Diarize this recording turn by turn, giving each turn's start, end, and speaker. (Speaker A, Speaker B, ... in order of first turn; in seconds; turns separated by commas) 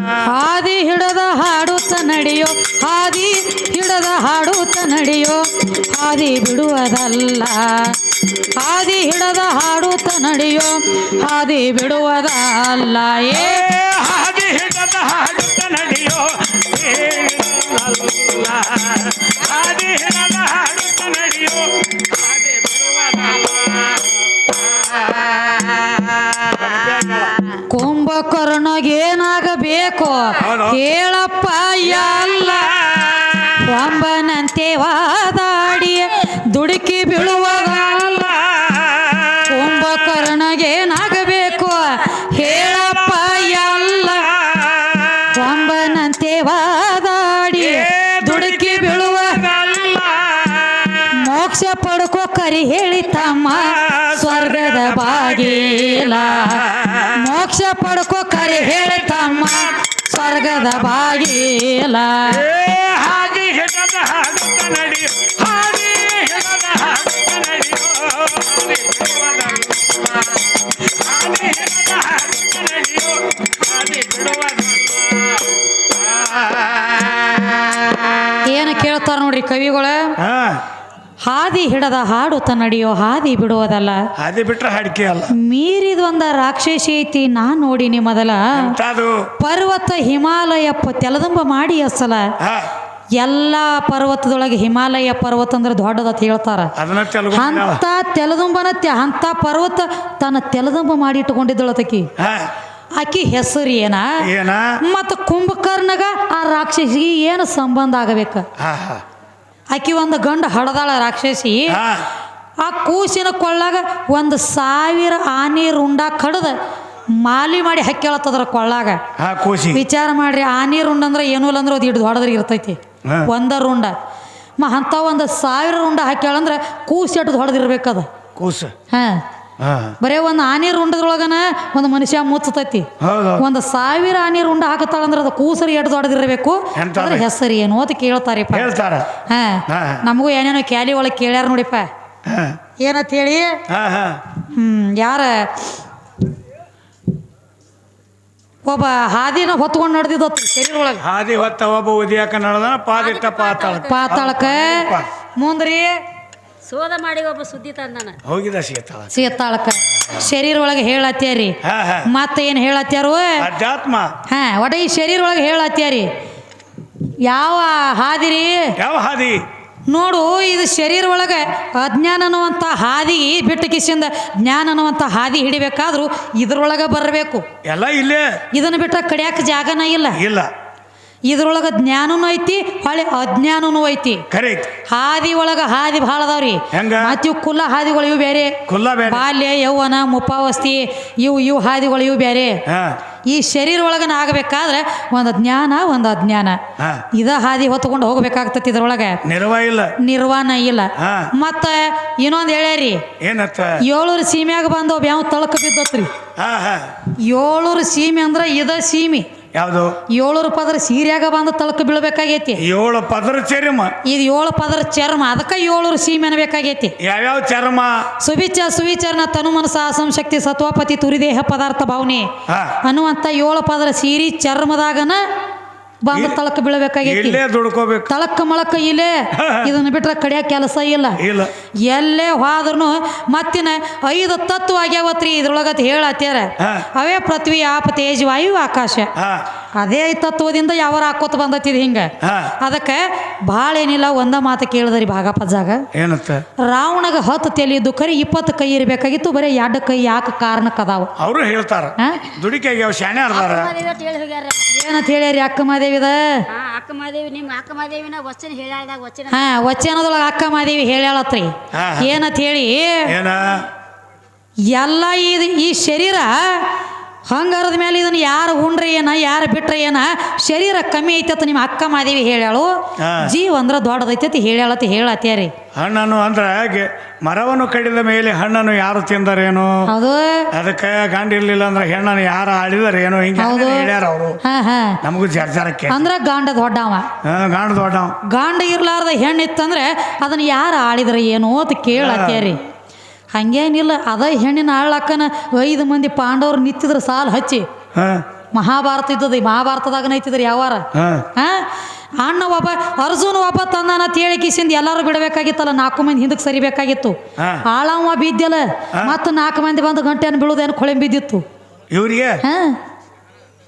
Speaker A: 0.2-13.7, Speaker B: 13.3-27.4, Speaker A: 27.7-32.8, Speaker B: 30.4-30.8, Speaker B: 32.1-33.6, Speaker A: 33.6-38.4, Speaker B: 38.4-39.4, Speaker A: 39.5-44.3, Speaker B: 44.4-45.3, Speaker A: 45.3-49.4, Speaker B: 47.6-51.1, Speaker A: 51.1-62.5, Speaker B: 53.7-57.1, Speaker B: 62.3-77.6, Speaker A: 78.5-80.2, Speaker B: 80.2-80.6, Speaker A: 81.2-84.0, Speaker B: 84.2-85.3, Speaker A: 85.3-88.7, Speaker B: 88.5-89.3, Speaker A: 89.4-92.3, Speaker B: 92.4-92.7, Speaker A: 93.2-96.7, Speaker B: 96.8-97.8, Speaker A: 97.3-102.1, Speaker B: 102.2-102.5, Speaker A: 103.0-104.2, Speaker B: 104.2-104.8, Speaker A: 104.8-108.5, Speaker B: 108.6-109.0, Speaker A: 109.7-111.8, Speaker B: 111.7-112.1, Speaker A: 112.6-116.6, Speaker A: 117.1-119.0, Speaker B: 119.2-119.8, Speaker A: 119.7-124.0, Speaker B: 123.0-123.3, Speaker A: 124.6-128.1, Speaker B: 128.4-128.7, Speaker A: 128.9-129.2, Speaker B: 129.6-130.0, Speaker A: 130.0-138.7, Speaker B: 133.0-133.4, Speaker B: 136.8-137.3, Speaker B: 138.5-139.1, Speaker A: 139.3-141.9, Speaker B: 139.7-140.0, Speaker B: 142.2-142.6, Speaker A: 142.8-143.6, Speaker B: 143.7-144.2, Speaker A: 144.5-145.7, Speaker A: 148.7-151.0, Speaker B: 151.0-155.1, Speaker C: 153.0-154.1, Speaker A: 153.9-156.0, Speaker C: 156.6-158.2, Speaker B: 158.2-159.1, Speaker A: 159.1-163.5, Speaker B: 161.6-162.1, Speaker B: 163.4-164.1, Speaker A: 164.3-166.1, Speaker A: 167.2-168.7, Speaker B: 168.8-169.4, Speaker A: 169.9-177.4, Speaker B: 177.6-178.3, Speaker A: 178.5-180.2, Speaker B: 180.1-180.5, Speaker A: 181.3-184.2, Speaker B: 184.3-184.7, Speaker A: 184.9-192.6, Speaker B: 186.7-187.2, Speaker B: 188.7-189.3, Speaker B: 192.7-193.0, Speaker A: 193.3-196.6, Speaker B: 196.8-197.1, Speaker A: 197.1-199.2, Speaker B: 199.2-200.0, Speaker A: 200.0-203.1, Speaker B: 201.0-201.3, Speaker B: 203.2-203.8, Speaker A: 203.8-206.1, Speaker B: 206.4-206.9, Speaker A: 207.2-209.3, Speaker B: 209.5-210.0, Speaker A: 210.1-212.6, Speaker B: 212.6-214.0, Speaker A: 214.1-216.9, Speaker B: 217.0-218.1, Speaker A: 218.2-222.3, Speaker B: 222.5-222.8, Speaker A: 222.8-225.2, Speaker A: 226.0-227.4, Speaker B: 226.1-226.4, Speaker B: 227.0-228.1, Speaker A: 228.1-231.2, Speaker B: 229.3-229.7, Speaker B: 231.2-231.5, Speaker A: 231.8-239.1, Speaker B: 236.6-236.9, Speaker B: 239.2-239.4, Speaker A: 239.8-245.8, Speaker B: 242.2-242.6, Speaker B: 245.9-246.4, Speaker A: 246.6-251.1, Speaker B: 251.2-253.8, Speaker A: 252.0-252.2, Speaker C: 253.3-254.7, Speaker A: 254.7-256.4, Speaker C: 256.5-259.4, Speaker A: 259.3-263.1, Speaker B: 261.7-262.1, Speaker B: 263.1-263.7, Speaker A: 264.7-266.7, Speaker A: 267.3-275.5, Speaker B: 273.0-273.3, Speaker B: 275.8-279.9, Speaker A: 279.9-280.5, Speaker B: 280.5-284.4, Speaker A: 283.4-283.9, Speaker A: 284.4-285.0, Speaker B: 285.0-286.1, Speaker A: 285.9-287.1, Speaker B: 287.2-288.2, Speaker A: 288.2-292.6, Speaker B: 291.9-292.5, Speaker A: 293.3-297.7, Speaker B: 297.9-298.2, Speaker A: 298.5-311.4, Speaker B: 300.9-301.3, Speaker B: 307.4-307.6, Speaker B: 308.9-309.2, Speaker B: 311.9-312.4, Speaker A: 312.4-312.8